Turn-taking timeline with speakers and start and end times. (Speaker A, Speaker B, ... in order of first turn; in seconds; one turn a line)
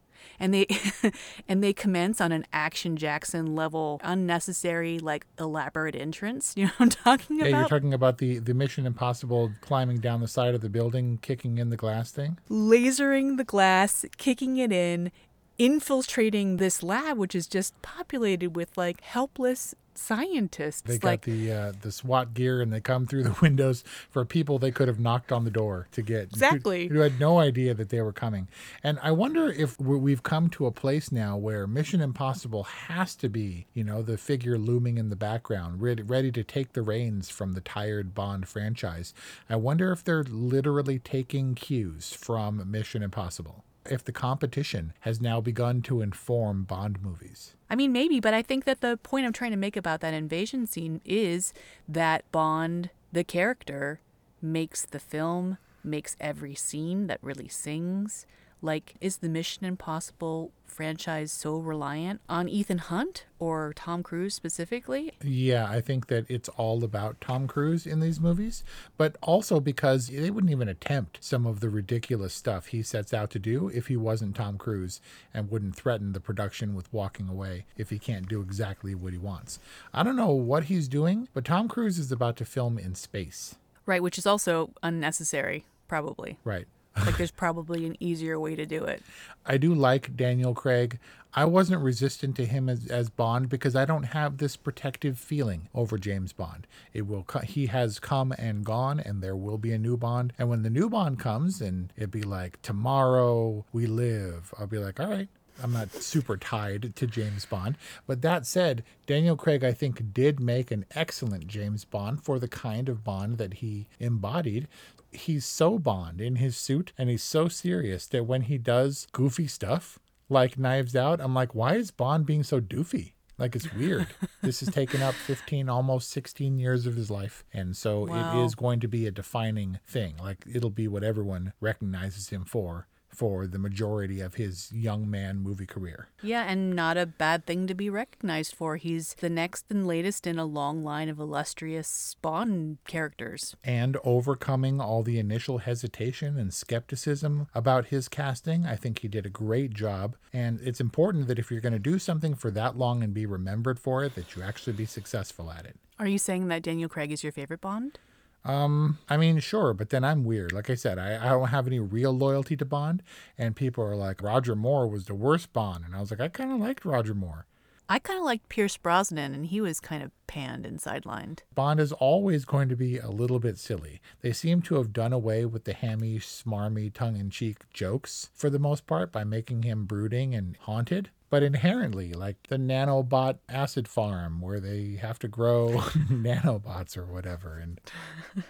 Speaker A: 0.4-7.7
Speaker B: 7.4-12.4
Speaker A: 12.5-21.2
Speaker B: 20.9-47.5
Speaker A: 26.3-26.9
Speaker A: 47.7-65.1
Speaker B: 65.2-83.6
Speaker A: 83.9-86.4
Speaker B: 86.5-87.2
Speaker A: 87.0-89.0
Speaker B: 89.5-136.1
Speaker A: 128.0-128.6
Speaker A: 136.2-143.6
Speaker B: 143.6-155.8
Speaker A: 156.0-158.0
Speaker B: 158.4-167.5
Speaker A: 167.9-171.4
Speaker B: 171.5-187.8